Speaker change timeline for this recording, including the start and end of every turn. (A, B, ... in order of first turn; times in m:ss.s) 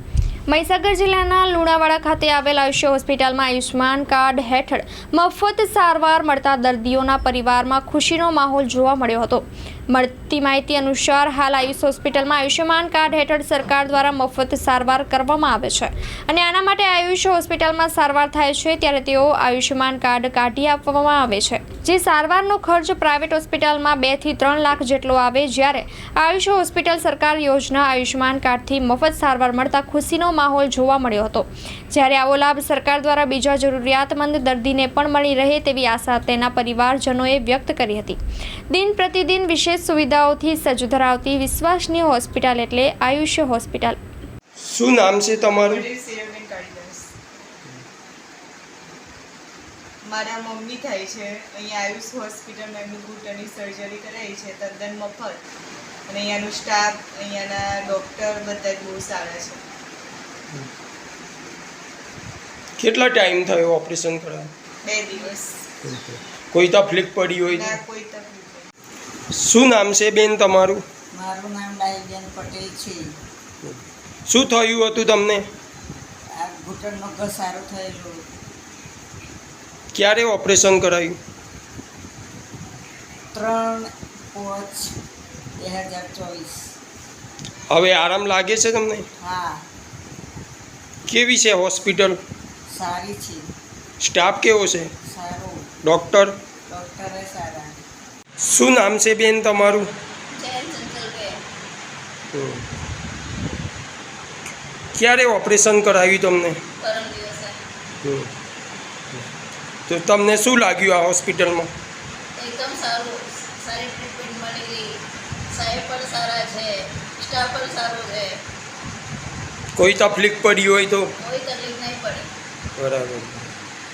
0:00.5-0:38.2 A
0:38.7-0:44.0 A
0:44.6-0:45.8 B
0:45.5-0:47.1 C
0:50.0-0:55.4 C
0:56.1-0:59.6 C
1:02.8-1:04.5 B
1:04.8-1:05.6 C
1:05.8-1:07.8 B
1:07.5-1:08.7 C
1:09.3-1:10.8 B
1:11.1-1:13.2 D
1:13.6-1:15.4 B
1:16.4-1:18.3 D
1:19.9-1:21.2 B
1:23.3-1:24.9 D
1:25.6-1:26.6 D
1:27.7-1:29.1 B
1:29.2-1:29.6 D
1:31.1-1:32.2 B
1:32.7-1:33.5 D
1:34.0-1:34.9 B
1:35.1-1:35.7 D
1:35.8-1:36.4 B
1:36.7-1:37.8 D
1:38.4-1:39.9 B
1:40.3-1:41.4 E
1:42.3-1:42.6 B
1:44.9-1:46.6 B
1:46.8-1:47.6 E
1:48.0-1:48.3 B
1:49.9-1:51.7 B
1:52.4-1:54.9 E
1:55.5-1:58.4 E
1:59.8-2:01.1 B
2:01.2-2:02.3 E
2:02.8-2:03.5 B